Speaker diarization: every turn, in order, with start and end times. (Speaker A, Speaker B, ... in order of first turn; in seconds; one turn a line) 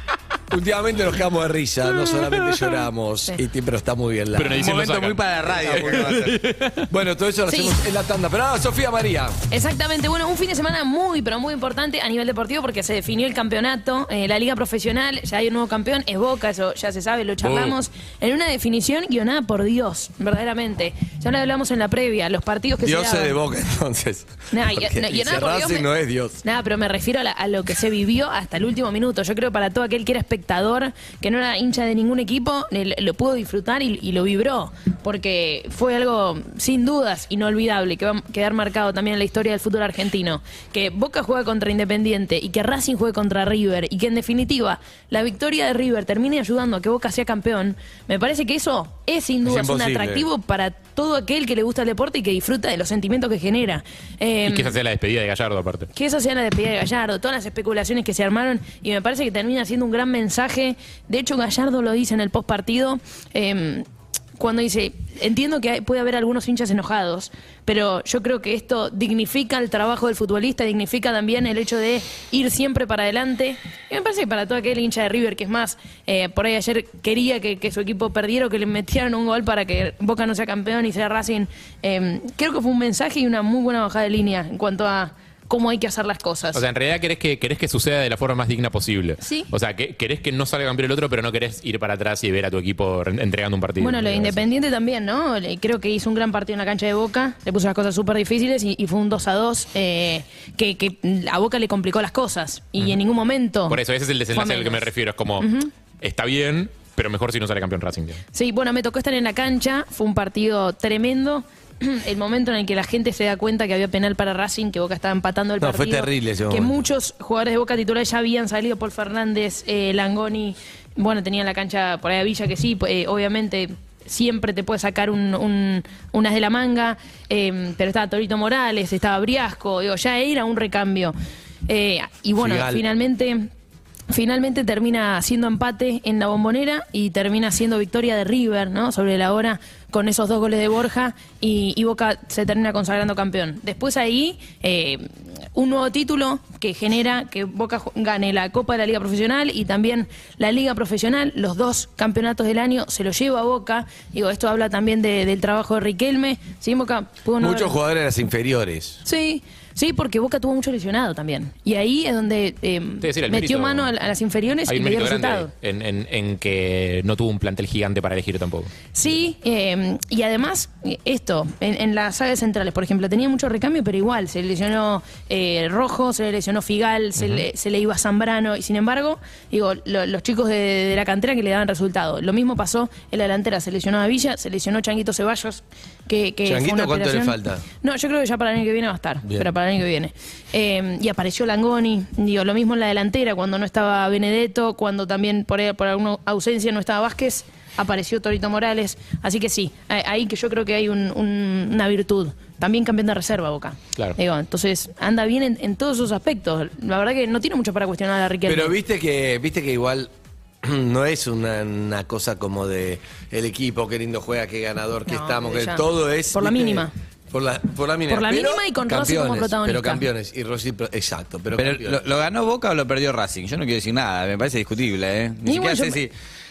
Speaker A: 0.5-4.7
Speaker B: 4.3-6.9
Speaker C: 4.6-6.4
Speaker A: 5.6-6.0
Speaker A: 6.9-9.3
Speaker D: 7.5-7.8
Speaker D: 9.5-23.4
Speaker A: 17.4-17.8
Speaker A: 22.8-26.4
Speaker D: 24.5-25.9
Speaker D: 26.4-54.8
Speaker A: 49.4-50.3
Speaker B: 54.4-55.9
Speaker D: 55.9-86.6
Speaker B: 86.5-94.4
Speaker D: 89.2-89.5
Speaker D: 93.8-105.7
Speaker B: 103.7-105.5
Speaker B: 106.0-108.2
Speaker D: 108.3-131.1
Speaker A: 115.6-116.8
Speaker D: 131.7-133.5
Speaker A: 132.3-132.8
Speaker D: 134.1-157.8
Speaker A: 157.4-159.0
Speaker D: 159.0-165.5
Speaker B: 163.0-163.9
Speaker B: 164.7-168.7
Speaker D: 168.9-208.8
Speaker A: 186.4-187.6
Speaker A: 208.4-210.1
Speaker A: 210.6-222.3
Speaker D: 215.1-216.9
Speaker D: 218.1-220.0
Speaker C: 221.6-226.1
Speaker D: 225.4-226.0